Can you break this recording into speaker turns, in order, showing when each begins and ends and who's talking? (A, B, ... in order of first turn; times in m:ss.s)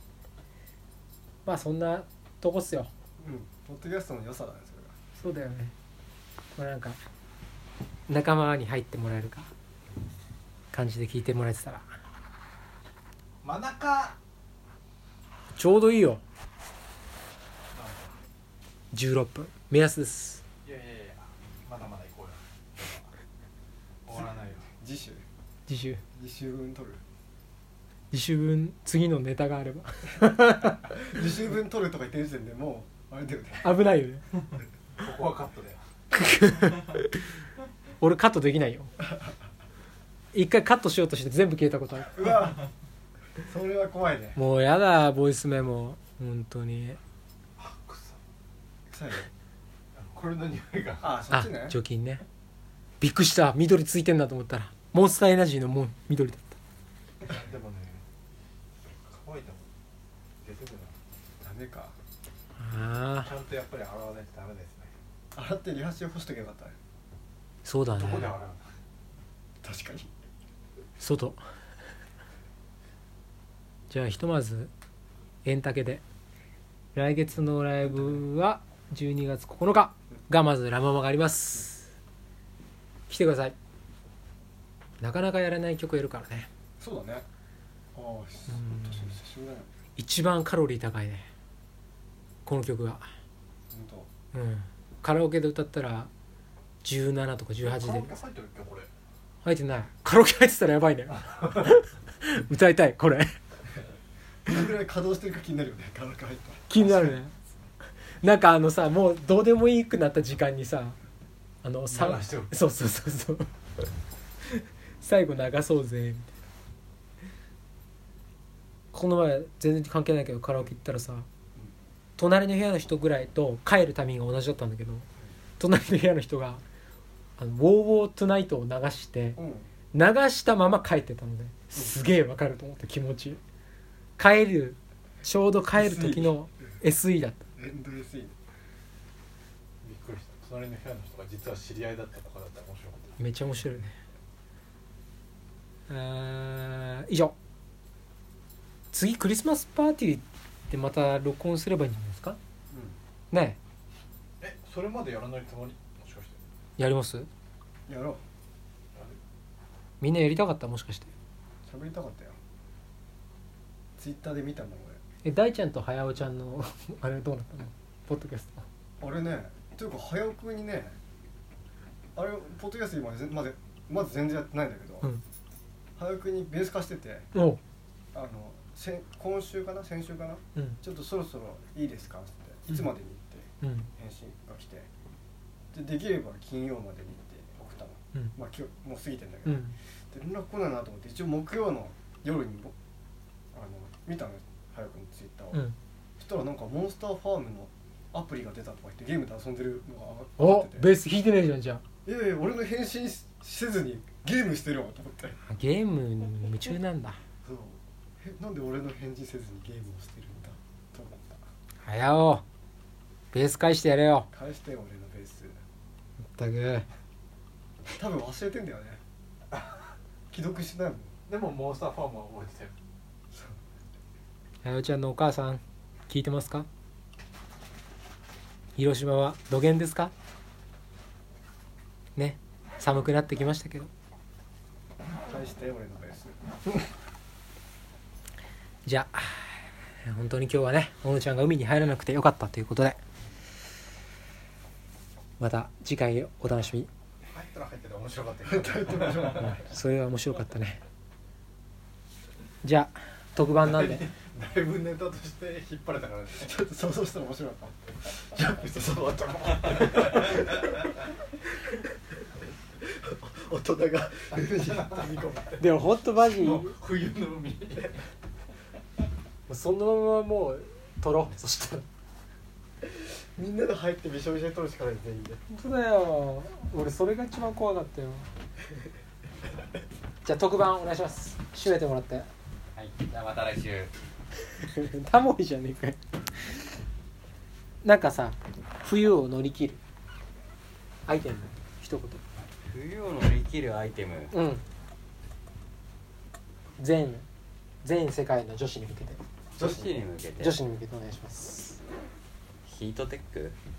0:01.4-0:02.9 A
0:03.2-0:04.9 B
0:05.2-0:05.7 A
0:06.5-0:07.0 A
0:08.1-0:09.5 A
0:10.7-0:11.9 A
0:13.4-0:14.2 C
0:15.6-0:16.2 A
0:17.7-0:18.1 C
0:18.9-0:20.4 A
0:20.6-0:23.1 C
0:24.1-0:24.7 C
0:24.8-0:25.2 B
0:25.7-0:26.0 A
0:26.1-0:27.0 B
0:28.1-0:31.0 A
0:30.9-0:33.8 B
0:33.6-0:34.2 A
0:35.0-0:35.8 C
0:36.1-0:37.3 A
0:38.0-0:38.9 A
0:40.3-0:42.3 A
0:42.1-0:42.6 B
0:43.4-0:44.4 B
0:44.4-0:47.0 A
0:47.6-0:48.2 C
0:48.9-0:49.3 B
0:49.9-0:51.2 C
0:51.0-0:51.8 B
0:51.3-0:52.2 A
0:53.0-0:56.6 A
0:57.2-0:58.0 C
0:59.1-0:59.6 C
1:00.4-1:01.0 C
1:01.4-1:02.0 B
1:02.6-1:03.3 A
1:03.2-1:04.9 C
1:05.3-1:06.8 B
1:07.6-1:08.3 A
1:08.0-1:08.7 C
1:09.6-1:10.1 B
1:11.0-1:11.4 A
1:13.9-1:14.7 A
1:15.4-1:16.0 A
1:17.0-1:21.9 A
1:23.1-1:23.5 A
1:25.0-1:26.5 A
1:26.8-1:27.2 B
1:28.0-1:29.7 B
1:28.5-1:29.2 A
1:30.0-1:31.3 A
1:32.4-1:33.0 A
1:33.7-1:34.1 B
1:34.3-1:36.1 A
1:36.8-1:38.2 A
1:37.6-1:38.9 C
1:39.4-1:43.4 A
1:41.1-1:41.8 C
1:44.4-1:47.2 B
1:46.7-1:47.3 A
1:48.2-1:51.0 A
1:51.6-1:53.5 A
1:51.9-1:52.5 C
1:54.5-1:56.3 A
1:58.9-2:01.3 A
2:02.2-2:05.1 A
2:05.6-2:06.6 A
2:07.4-2:09.4 A
2:09.4-2:09.7 B
2:09.9-2:13.4 A
2:14.2-2:17.4 A
2:15.7-2:16.4 B
2:17.6-2:18.4 B
2:19.8-2:23.2 C
2:23.2-2:24.0 A
2:25.9-2:27.3 A
2:28.9-2:32.4 A
2:32.7-2:33.0 B
2:33.3-2:33.6 A
2:34.4-2:36.4 C
2:36.8-2:37.3 A
2:37.9-2:38.2 B
2:40.0-2:41.1 A
2:41.7-2:42.4 B
2:44.0-2:45.0 B
2:45.2-2:48.7 A
2:49.0-2:51.0 B
2:52.2-2:55.1 B
2:56.0-2:57.3 B
2:57.3-2:57.6 A
2:58.1-3:04.9 B
3:03.6-3:03.9 A
3:05.7-3:12.7 B
3:09.5-3:09.8 A
3:13.5-3:15.6 B
3:16.2-3:20.9 B
3:20.4-3:21.8 A
3:22.0-3:25.4 B
3:25.4-3:27.2 A
3:27.4-3:31.4 B
3:31.8-3:32.4 A
3:33.3-3:34.3 A
3:34.3-3:35.6 B
3:36.3-3:36.9 A
3:37.9-3:39.0 B
3:39.5-3:39.9 C
3:40.3-3:41.1 B
3:41.3-3:42.7 C
3:43.3-3:43.6 B
3:44.6-3:46.7 A
3:48.8-3:50.1 A
3:52.2-3:53.9 A
3:55.2-3:56.4 B
3:58.8-4:03.0 A
4:05.4-4:06.9 A
4:07.3-4:09.6 C
4:08.5-4:09.6 B
4:09.4-4:10.8 A
4:12.6-4:14.1 A
4:13.6-4:16.5 C
4:16.4-4:20.9 B
4:22.8-4:25.5 B
4:24.4-4:28.0 C
4:25.6-4:26.7 A
4:29.5-4:31.8 A
4:32.8-4:35.4 B
4:35.5-4:38.3 A
4:40.2-4:42.3 A
4:42.8-4:43.9 D
4:44.6-4:46.6 A
4:47.8-4:49.8 A
4:51.0-4:52.2 A
4:52.6-4:54.3 D
4:54.3-4:54.6 A
4:56.8-4:57.2 A
4:57.8-4:59.2 A
4:59.6-5:00.6 D
4:59.6-5:00.0 B
5:00.4-5:01.8 A
5:02.6-5:03.6 D